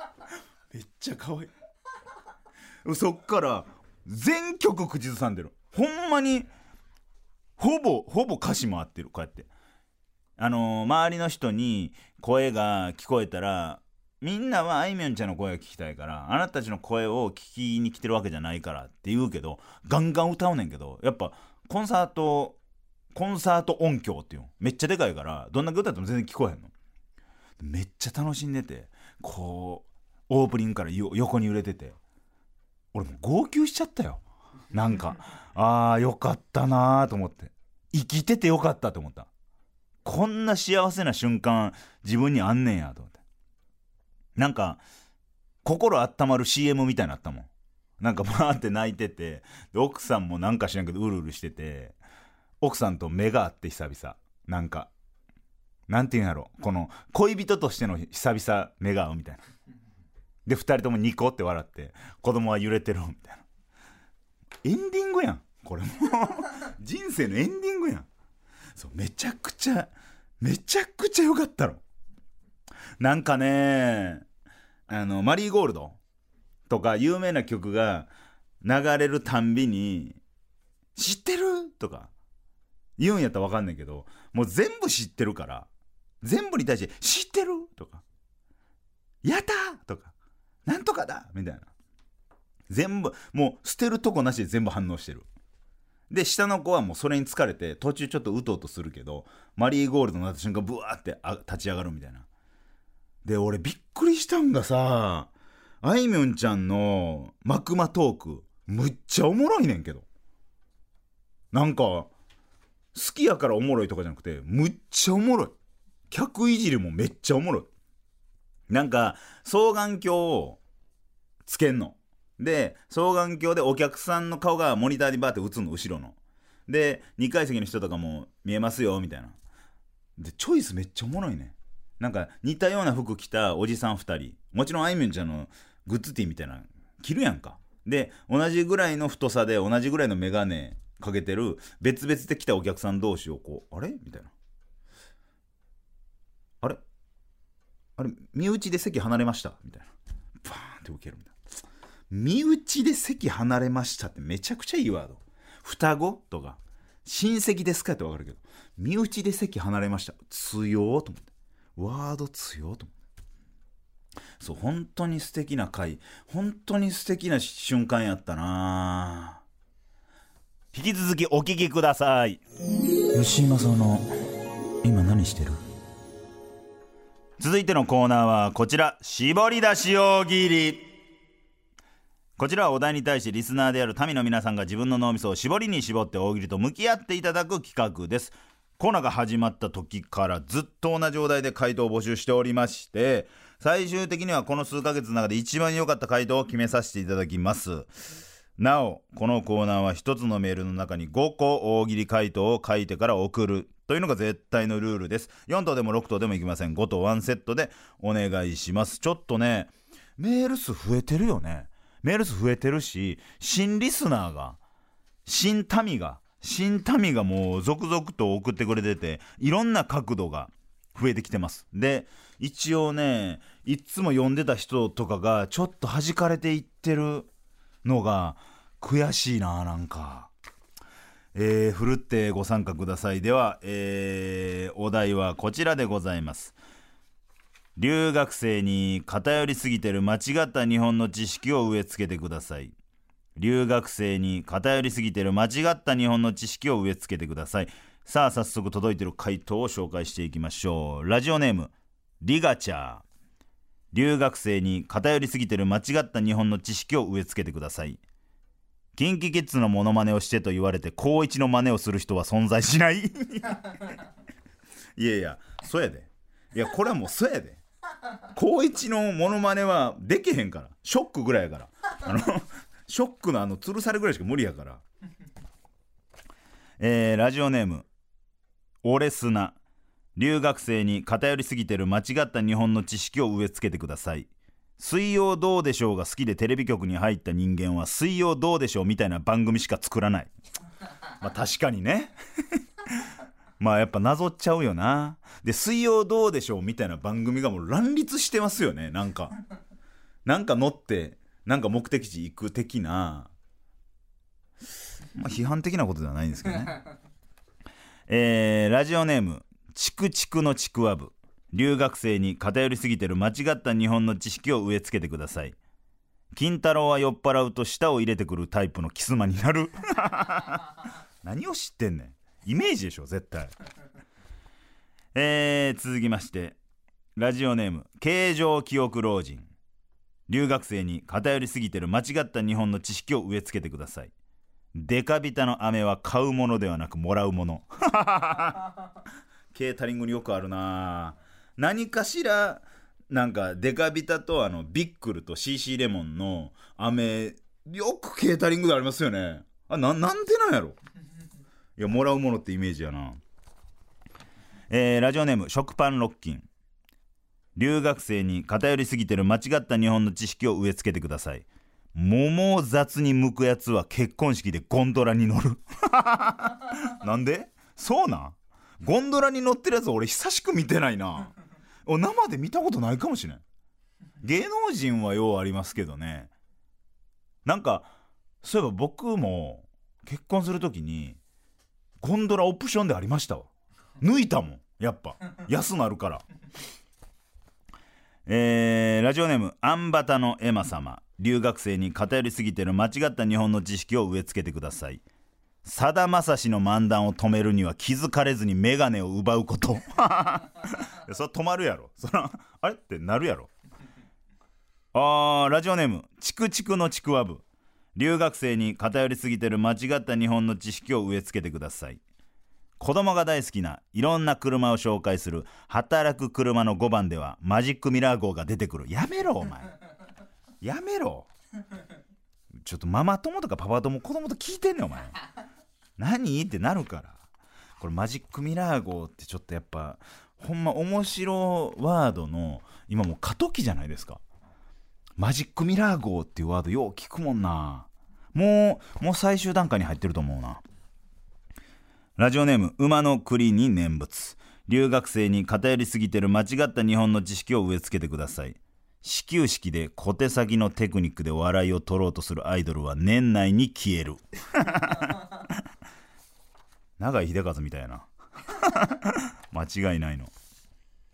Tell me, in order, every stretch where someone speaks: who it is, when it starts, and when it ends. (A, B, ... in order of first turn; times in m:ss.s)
0:00.7-0:01.5 A
0:02.8-0:06.5 A
0:07.6-0:09.5 A
0:10.4-0:22.6 A
0:23.1-0:26.7 A
0:27.6-0:32.0 A
0:32.9-0:34.2 A
0:34.7-0:39.3 A
0:40.0-0:43.2 A
0:44.4-0:44.8 A
0:45.6-0:47.5 A
0:48.0-0:52.0 A
0:52.6-0:54.9 A
0:55.9-0:59.4 A
1:00.5-1:03.4 A
1:04.6-1:08.1 A
1:08.8-1:11.8 A
1:13.0-1:14.2 A
1:14.9-1:16.0 A
1:16.7-1:18.1 A
1:18.6-1:20.2 A
1:21.0-1:22.1 A
1:23.0-1:25.7 A
1:26.2-1:28.0 A
1:29.2-1:30.1 A
1:30.6-1:31.7 A
1:32.7-1:35.2 A
1:36.1-1:42.3 A
1:43.2-1:50.0 A
1:51.5-1:52.1 A
1:52.9-1:55.6 A
1:56.1-1:57.7 A
1:58.7-2:00.6 A
2:01.4-2:06.2 A
2:06.7-2:09.4 A
2:10.2-2:24.3 A
2:28.0-2:29.9 A
2:30.4-2:31.4 A
2:32.1-2:42.9 A
2:44.4-2:49.4 A
2:50.7-2:52.4 A
2:53.1-2:54.1 A
2:54.8-2:55.6 A
2:57.4-3:00.8 A
3:02.4-3:17.9 A
3:18.6-3:34.6 A
3:35.3-3:47.3 A
3:47.8-3:50.3 A
3:51.4-3:56.6 A
3:57.8-4:02.8 A
4:03.4-4:13.0 A
4:13.9-4:18.0 A
4:19.0-4:23.8 A
4:25.0-4:27.6 A
4:28.3-4:34.8 A
4:36.8-4:37.9 A
4:38.8-4:39.6 A
4:40.2-4:50.3 A
4:51.2-4:52.1 A
4:53.6-4:59.4 A
5:00.2-5:03.3 A
5:05.2-5:06.8 A
5:08.1-5:15.6 A
5:16.3-5:23.5 A
5:25.2-5:26.6 A
5:27.2-5:29.5 A
5:30.3-5:34.1 A
5:34.8-5:38.7 A
5:39.5-5:50.8 A
5:51.8-5:53.2 A
5:54.7-5:56.5 A
5:57.6-6:11.3 A
6:11.9-6:13.4 A
6:14.2-6:16.3 A
6:17.4-6:17.9 A
6:18.4-6:21.2 A
6:22.0-6:23.5 A
6:24.0-6:26.2 A
6:28.3-6:35.0 A
6:35.6-6:43.5 A
6:44.9-6:47.4 A
6:48.0-6:52.0 A
6:52.8-6:59.8 A
7:00.6-7:01.3 A
7:02.6-7:05.2 A
7:06.0-7:07.2 A
7:07.8-7:14.2 A
7:15.2-7:20.6 A
7:22.2-7:35.2 A
7:37.0-7:40.3 A